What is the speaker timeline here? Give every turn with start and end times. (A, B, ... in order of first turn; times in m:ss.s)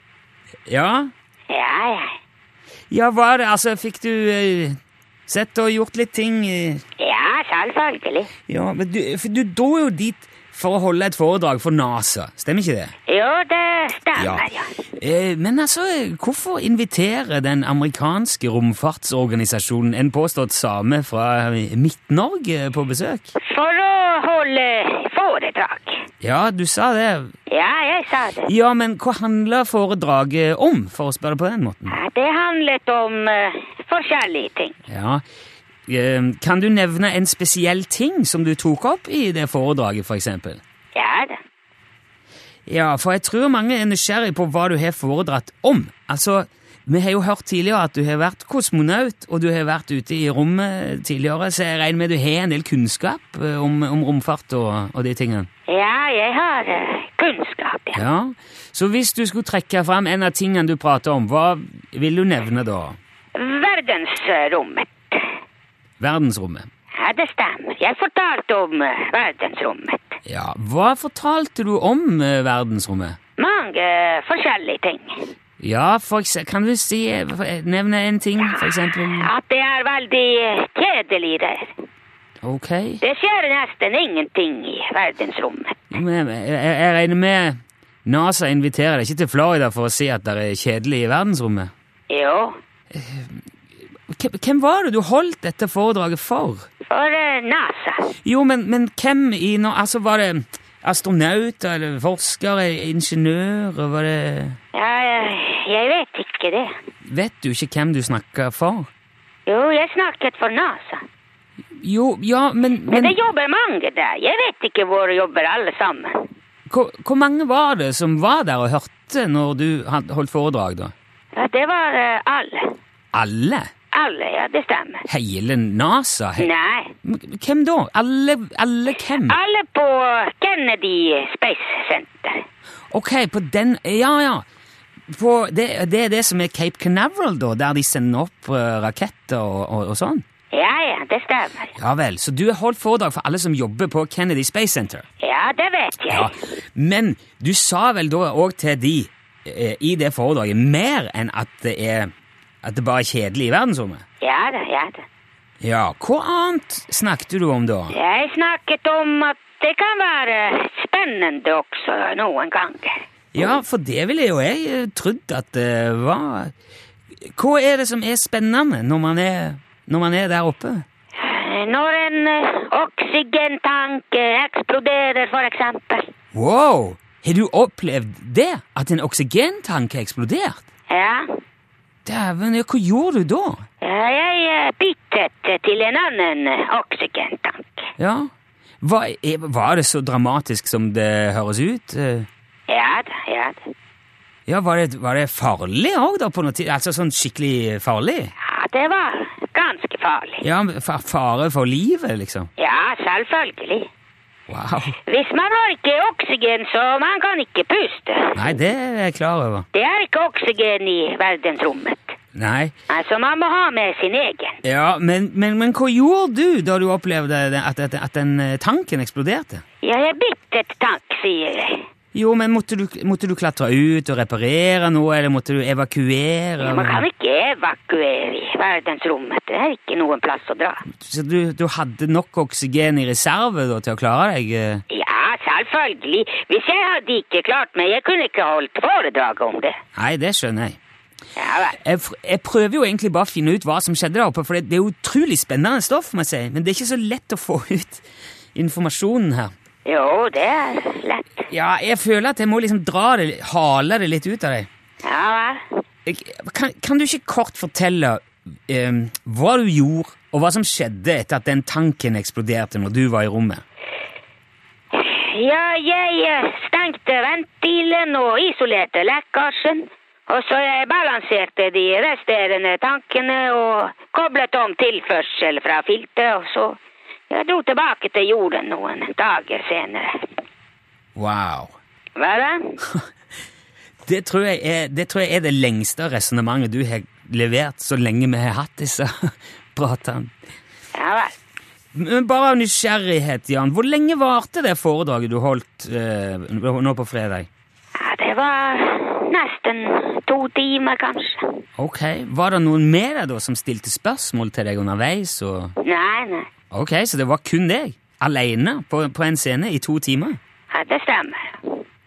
0:00.7-0:01.1 A
0:01.5-0:02.1 B
0:02.9-0:06.8 A
0:07.0-0:08.3 B
0:08.5-0:12.9 A
0:13.1-0:14.7 B
0:14.2-0:14.5 A
0:15.0-0:23.4 A
0:23.4-0:26.0 B
0:26.2-0:27.3 A
0:27.5-0:28.5 B
0:28.5-0:32.0 A
0:31.9-0:34.8 B
0:34.9-0:35.2 A
0:35.9-0:40.6 A
0:41.0-0:41.4 B
0:42.7-0:55.5 A
0:55.7-0:58.0 B
0:57.9-1:03.0 A
1:03.4-1:05.3 B
1:06.0-1:06.7 A
1:07.0-1:10.2 B
1:10.3-1:13.2 A
1:13.4-1:15.3 B
1:15.6-1:19.3 A
1:18.4-1:21.7 B
1:22.4-1:23.0 A
1:23.0-1:25.8 B
1:25.9-1:31.7 A
1:32.1-1:32.6 B
1:32.9-1:33.4 A
1:34.1-1:36.7 A
1:36.9-1:38.1 B
1:38.2-1:44.6 A
1:44.7-1:46.7 B
1:47.1-1:48.9 A
1:49.5-1:51.0 B
1:51.8-1:53.2 A
1:52.9-1:56.3 B
1:56.7-2:00.9 A
2:01.4-2:02.8 B
2:03.1-2:03.7 A
2:03.9-2:05.1 B
2:05.1-2:06.5 A
2:06.4-2:06.9 B
2:07.0-2:09.4 A
2:09.1-2:12.4 B
2:12.9-2:14.4 A
2:15.1-2:20.2 A
2:20.5-2:21.7 B
2:21.8-2:25.0 A
2:25.2-2:26.3 B
2:26.1-2:32.1 A
2:32.6-2:34.0 A
2:34.2-2:35.0 B
2:35.6-2:38.0 A
2:37.9-2:43.0 B
2:43.3-2:46.5 A
2:47.4-2:50.8 A
2:51.2-2:56.1 B
2:56.3-3:00.6 A
3:00.9-3:01.3 B
3:02.0-3:03.6 A
3:03.8-3:07.9 B
3:08.0-3:08.3 A
3:08.8-3:12.3 A
3:12.7-3:13.7 B
3:14.5-3:18.3 A
3:18.4-3:20.4 B
3:20.4-3:22.5 A
3:22.6-3:23.9 B
3:24.5-3:25.0 A
3:25.0-3:28.4 B
3:28.4-3:29.7 A
3:29.7-3:32.1 B
3:32.4-3:32.7 A
3:32.9-3:34.6 B
3:34.6-3:39.6 A
3:39.8-3:41.8 B
3:42.1-3:47.0 A
3:46.6-3:50.8 B
3:50.9-3:54.8 A
3:54.9-3:59.8 B
4:00.0-4:00.8 A
4:01.4-4:01.8 B
4:01.8-4:09.5 A
4:09.8-4:11.5 B
4:11.5-4:14.7 A
4:15.0-4:15.6 B
4:16.1-4:23.6 A
4:24.9-4:36.8 B
4:37.3-4:40.3 B
4:41.2-4:41.8 A
4:42.2-4:42.8 B
4:44.1-4:50.3 A
4:51.0-4:51.4 B
4:52.0-4:57.5 A
4:58.0-5:01.5 B
5:01.8-5:05.8 A
5:05.8-5:06.5 B
5:06.7-5:10.4 A
5:10.7-5:11.8 B